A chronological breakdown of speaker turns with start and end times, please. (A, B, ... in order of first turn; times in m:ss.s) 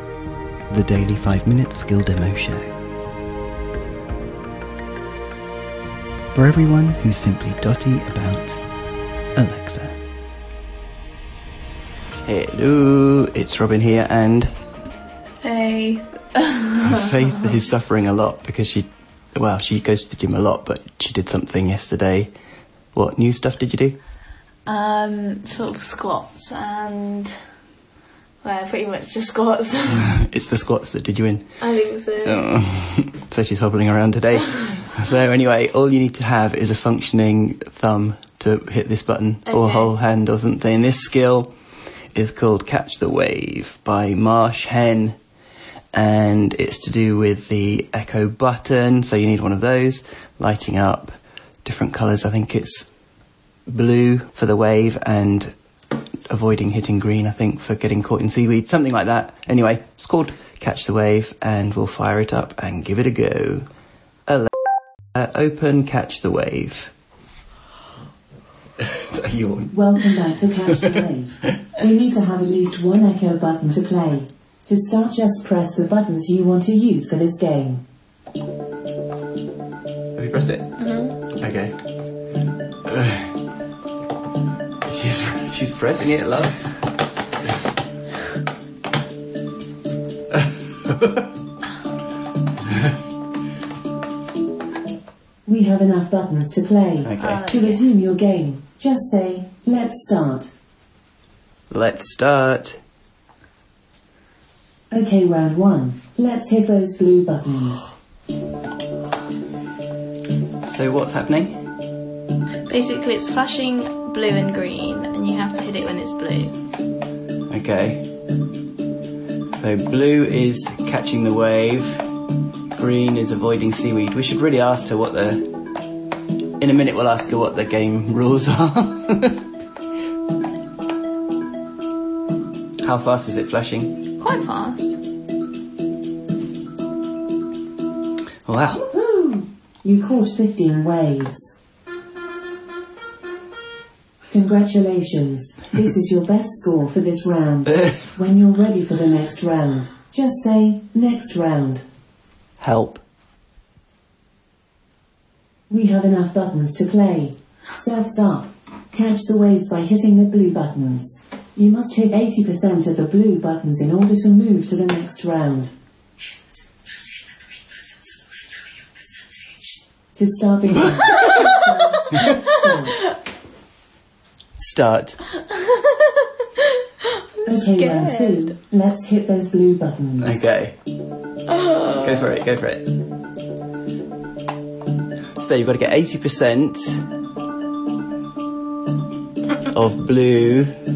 0:00.7-0:02.7 A
0:06.3-0:08.6 A
0:09.3-0:10.0 A
0:12.2-0:14.5 A
0:15.4-0:17.1 B
0:16.8-0:22.3 A
0:22.9-0:24.0 A
0:24.6-0:27.3 B
0:28.4-0:30.1 B
0:29.9-0:31.5 A
0:31.6-0:32.5 B
0:32.2-0:41.5 A
0:39.5-0:39.9 B
0:42.1-0:45.2 A
0:45.9-0:52.9 A
0:53.7-0:55.6 A
0:56.3-1:03.7 A
1:04.3-1:04.5 A
1:05.1-1:06.9 A
1:08.8-1:10.2 A
1:09.7-1:17.8 C
1:20.1-1:20.7 A
1:20.8-1:21.2 B
1:21.3-1:21.8 A
1:22.8-1:23.3 A
1:24.9-1:26.8 A
1:30.8-1:31.2 A
1:35.4-1:40.5 C
1:37.0-1:37.6 A
1:37.2-1:37.9 B
1:41.7-1:42.8 A
1:44.9-1:47.9 C
1:50.6-1:51.6 A
1:52.7-1:56.6 B
1:57.5-1:58.1 A
1:59.5-2:02.0 A
2:02.7-2:05.5 A
2:06.6-2:09.4 A
2:12.8-2:14.0 A
2:14.2-2:15.0 B
2:18.4-2:18.9 A
2:18.8-2:21.5 C
2:24.3-2:31.8 C
2:32.6-2:33.0 A
2:35.7-2:45.7 C
2:49.4-2:53.0 C
2:54.6-2:55.2 A
2:55.4-2:58.5 B
2:57.4-3:00.4 C
3:00.2-3:00.8 A
3:01.5-3:02.3 B
3:02.0-3:02.9 A
3:05.4-3:07.0 A
3:09.7-3:10.8 A